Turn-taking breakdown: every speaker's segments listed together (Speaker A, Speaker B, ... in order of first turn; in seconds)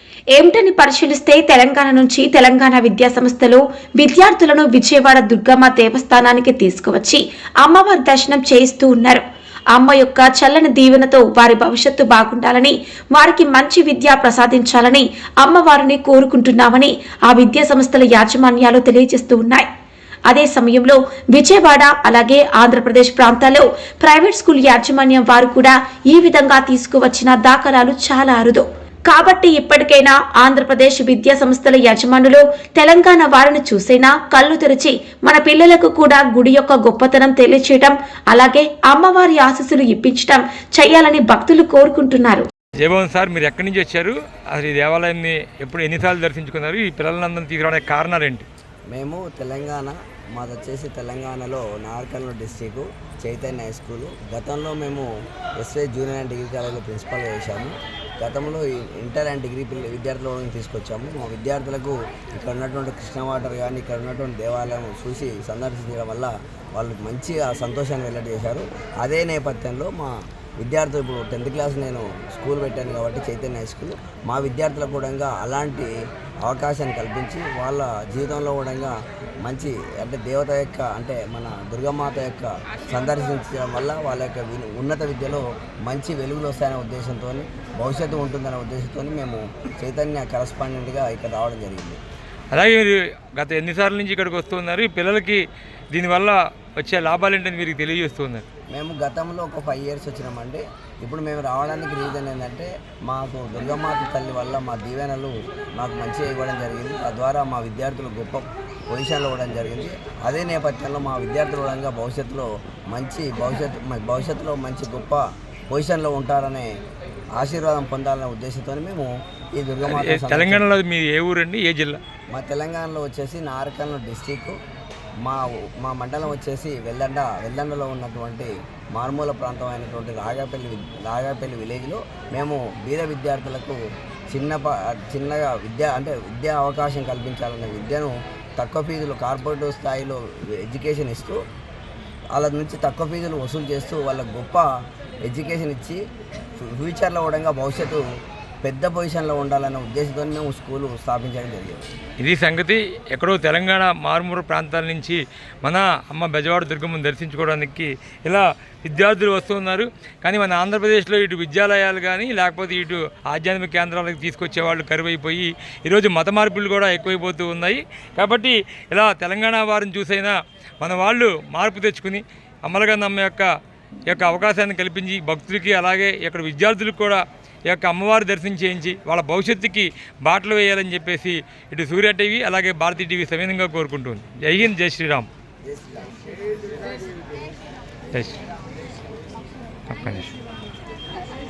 Speaker A: 0.3-19.7, 20.3-42.5
Speaker B: 42.8-48.5, 92.5-95.4, 95.9-98.4, 119.8-122.0, 152.2-173.5, 174.1-185.3, 188.1-188.4, 189.9-190.3
Speaker C: 48.9-75.9, 76.4-92.0, 98.7-116.7, 117.4-120.6, 122.3-124.6, 125.2-133.8, 134.3-141.4, 142.3-144.7, 145.3-146.0, 146.6-148.0, 148.6-151.9, 185.7-186.2